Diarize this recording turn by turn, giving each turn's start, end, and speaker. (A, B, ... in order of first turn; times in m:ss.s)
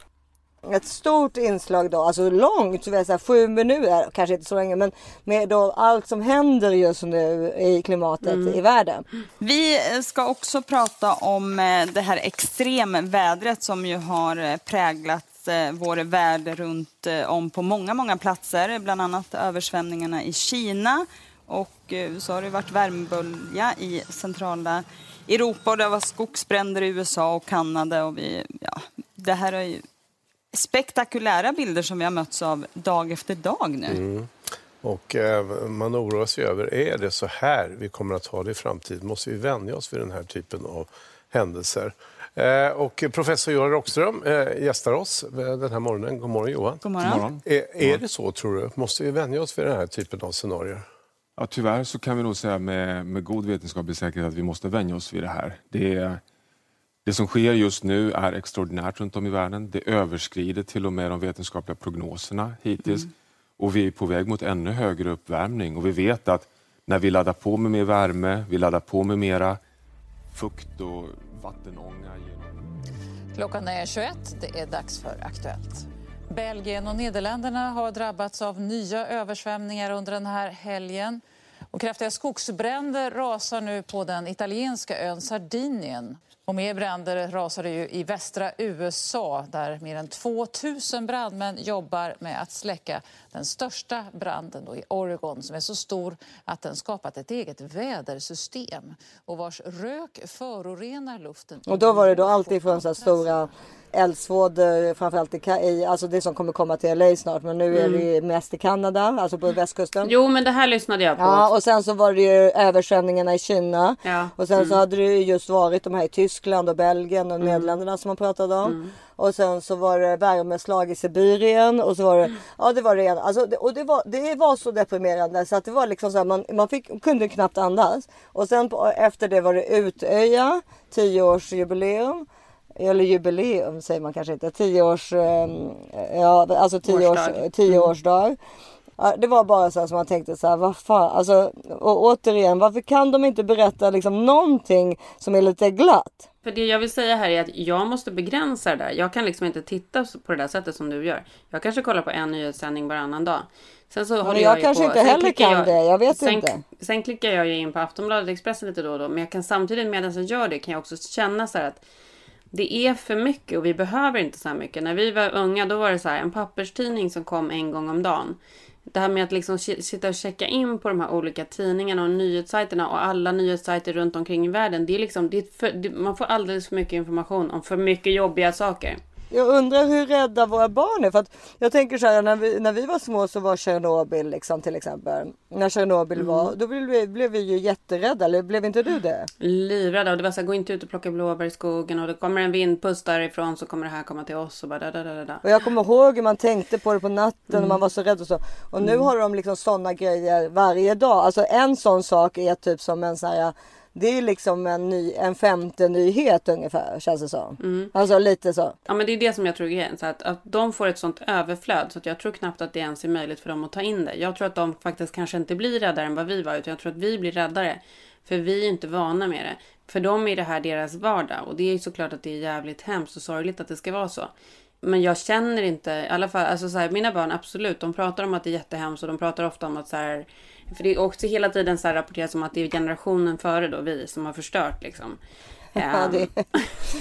0:00.6-0:09.1 A
0:08.2-0:08.6 B
0:09.4-0:29.8 C
0:30.5-0:34.0 C
0:33.9-0:34.3 D
0:34.8-0:50.9 D
0:46.8-0:47.3 C
0:47.0-0:48.0 E
0:51.4-0:56.2 E
0:57.0-1:09.6 E
1:10.3-1:12.6 E
1:13.3-1:21.2 F
1:21.7-1:43.3 F
1:41.7-1:50.1 A
1:47.7-1:48.1 B
1:50.0-1:51.5 B
1:51.2-2:18.4 A
1:54.0-1:54.8 B
1:57.4-1:57.7 B
1:58.6-1:58.9 B
2:16.9-2:17.9 B
2:19.0-2:26.3 A
2:26.4-2:41.8 B
2:34.2-2:36.6 A
2:42.5-2:59.0 B
2:59.3-3:09.3 A
3:06.2-3:06.5 B
3:09.4-3:15.4 B
3:15.4-3:28.8 A
3:17.5-3:17.8 B
3:18.8-3:19.1 B
3:27.6-3:27.9 B
3:28.9-3:55.2 B
3:55.8-3:56.8 B
3:55.8-3:56.4 A